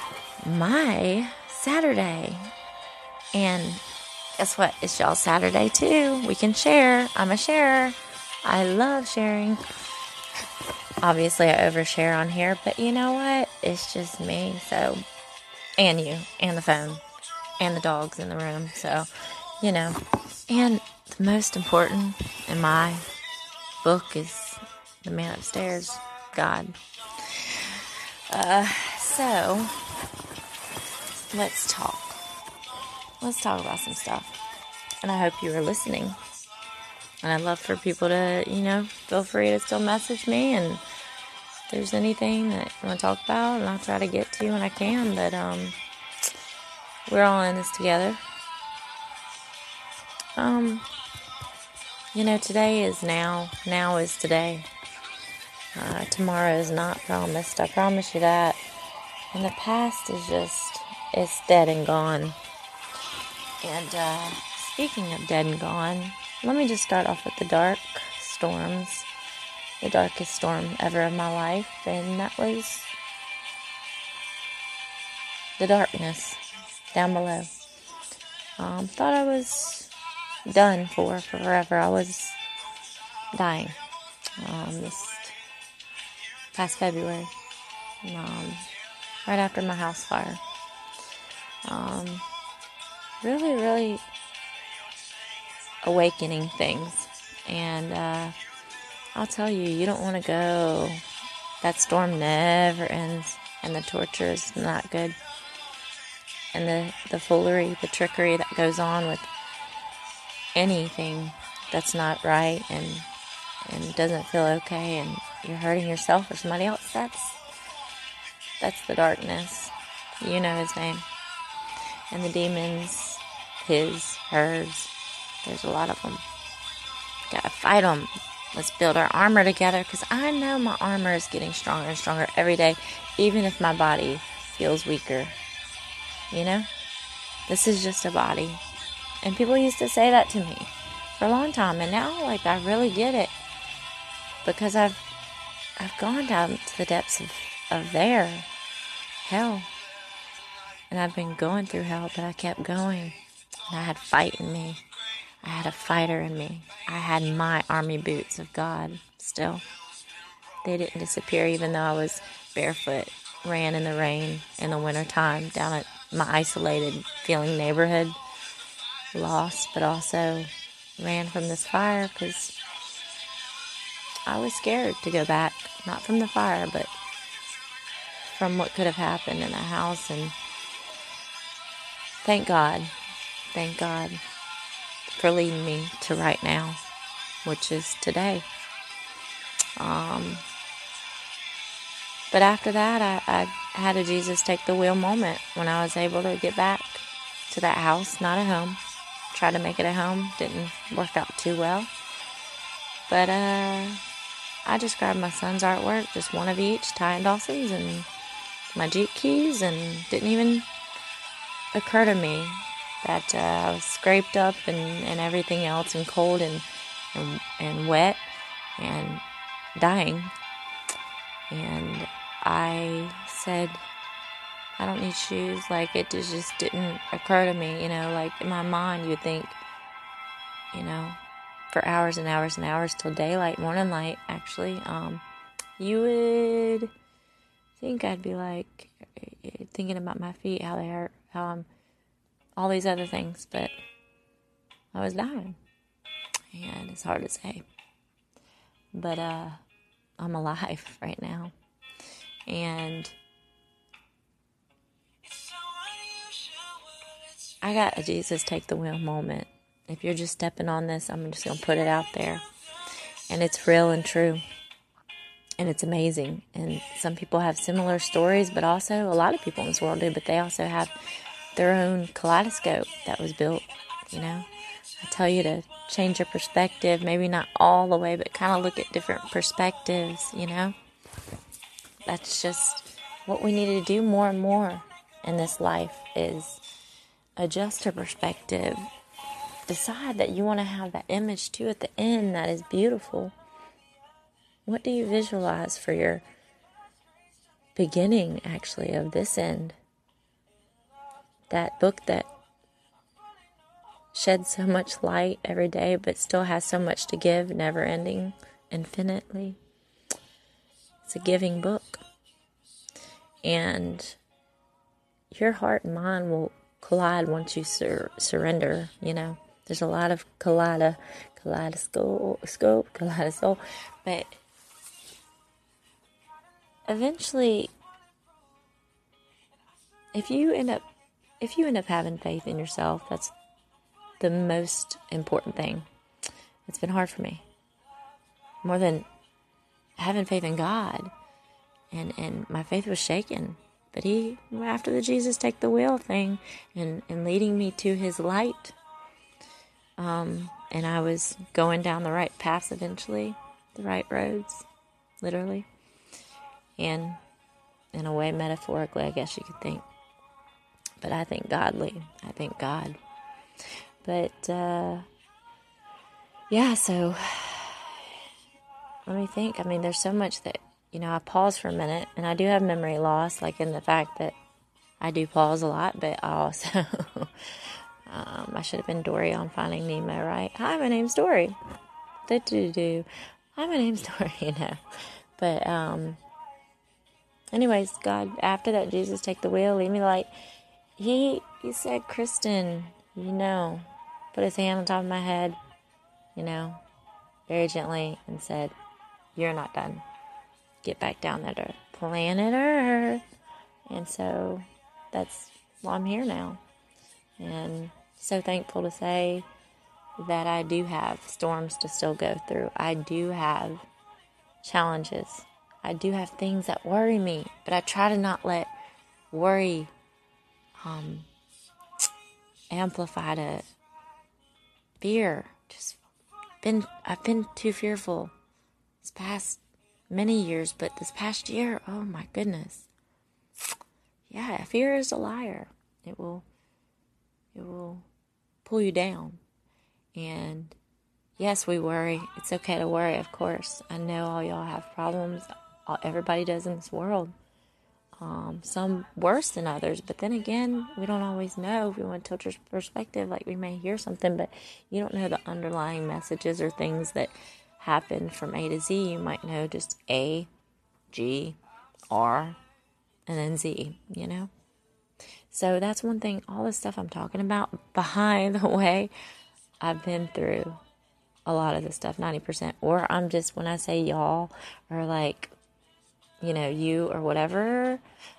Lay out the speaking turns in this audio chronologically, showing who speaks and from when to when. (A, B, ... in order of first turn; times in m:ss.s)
0:00.4-0:02.5 A
0:03.3-0:03.8 A
0:04.4-0:09.6 A
0:11.0-0:15.0 A
0:15.8-0:17.0 A
0:17.6-0:20.0 A
0:20.5-0:23.0 A
0:23.8-0:29.7 A
0:31.3-0:32.2 A
0:33.2-0:34.4 A
0:35.0-0:36.2 A
0:37.2-0:40.8 A
0:41.7-0:45.8 A
0:47.1-0:48.2 A
0:50.4-0:50.9 A
0:52.1-0:54.7 A
0:55.7-0:58.6 A
0:59.3-1:02.4 A
1:03.6-1:09.1 A
1:09.8-1:13.0 A
1:15.6-1:16.4 A
1:16.9-1:17.5 A
1:18.6-1:19.9 A
1:20.5-1:22.4 A
1:23.3-1:23.8 A
1:24.4-1:25.4 A
1:26.5-1:27.3 A
1:28.0-1:28.6 A
1:29.3-1:30.4 A
1:31.7-1:32.2 A
1:33.2-1:34.0 A
1:35.8-1:38.4 A
1:39.1-1:41.0 A
1:41.6-1:45.2 A
1:46.5-1:49.3 A
1:50.6-1:53.1 A
1:53.7-1:57.4 A
1:58.6-2:01.0 A
2:02.1-2:04.9 A
2:05.4-2:06.2 A
2:07.3-2:15.4 A
2:16.3-2:16.7 A
2:17.5-2:18.6 A
2:19.2-2:23.3 A
2:24.4-2:25.0 A
2:25.8-2:28.5 A
2:29.2-2:29.7 A
2:30.9-2:33.2 A
2:33.7-2:34.8 A
2:35.4-2:39.6 A
2:40.6-2:48.2 A
2:49.1-2:52.6 A
2:54.3-2:56.9 A
2:58.3-3:00.4 A
3:02.2-3:02.9 A
3:03.5-3:04.2 A
3:05.1-3:06.8 A
3:07.4-3:08.4 A
3:09.8-3:10.4 A
3:12.3-3:18.8 A
3:19.3-3:21.9 A
3:23.1-3:24.0 A
3:24.6-3:28.1 A
3:28.7-3:30.7 A
3:31.7-3:38.2 A
3:38.8-3:39.2 A
3:39.8-3:40.3 A
3:41.5-3:43.8 A
3:44.8-3:49.6 A
3:50.7-3:51.2 A
3:51.7-3:55.2 A
3:55.8-3:56.9 A
3:57.8-4:01.7 A
4:02.6-4:03.7 A
4:04.9-4:05.6 A
4:06.5-4:07.6 A
4:08.9-4:09.6 A
4:10.2-4:11.5 A
4:12.5-4:13.2 A
4:17.6-4:22.4 A
4:23.3-4:24.4 A
4:25.6-4:31.0 A
4:31.6-4:34.5 A
4:35.0-4:40.8 A
4:42.1-4:46.6 A
4:47.4-4:48.9 A
4:49.7-4:53.3 A
4:54.7-4:56.2 A
4:57.8-4:59.8 A
5:01.5-5:02.3 A
5:04.1-5:09.6 A
5:11.0-5:12.0 A
5:13.4-5:14.2 A
5:15.3-5:24.4 A
5:26.9-5:27.7 A
5:30.1-5:30.8 A
5:31.4-5:33.3 A
5:34.2-5:35.9 A
5:36.7-5:37.4 A
5:38.6-5:39.1 A
5:40.0-5:41.1 A
5:41.9-5:48.8 A
5:50.0-5:54.7 A
5:55.2-5:55.7 A
5:56.8-5:57.2 A
5:57.9-5:59.8 A
6:01.0-6:03.0 A
6:04.0-6:05.1 A
6:06.5-6:08.2 A
6:09.1-6:14.4 A
6:15.0-6:21.6 A
6:22.3-6:24.8 A
6:25.4-6:26.2 A
6:27.5-6:30.3 A
6:31.0-6:35.6 A
6:36.4-6:36.8 A
6:37.5-6:38.7 A
6:39.4-6:40.0 A
6:40.8-6:43.2 A
6:43.9-6:46.6 A
6:47.4-6:49.5 A
6:50.2-6:53.8 A
6:54.6-6:58.7 A
6:59.3-6:59.9 A
7:00.8-7:01.3 A
7:02.7-7:03.7 A
7:05.0-7:06.0 A
7:06.6-7:08.3 A
7:09.0-7:12.9 A
7:14.3-7:16.4 A
7:17.5-7:18.1 A
7:18.6-7:19.4 A
7:20.2-7:20.8 A
7:21.4-7:27.3 A
7:28.2-7:40.5 A
7:41.1-7:41.6 A
7:42.1-7:42.6 A
7:43.3-7:44.5 A
7:45.5-7:49.1 A
7:49.8-7:50.8 A
7:51.5-7:55.5 A
7:56.4-7:58.0 A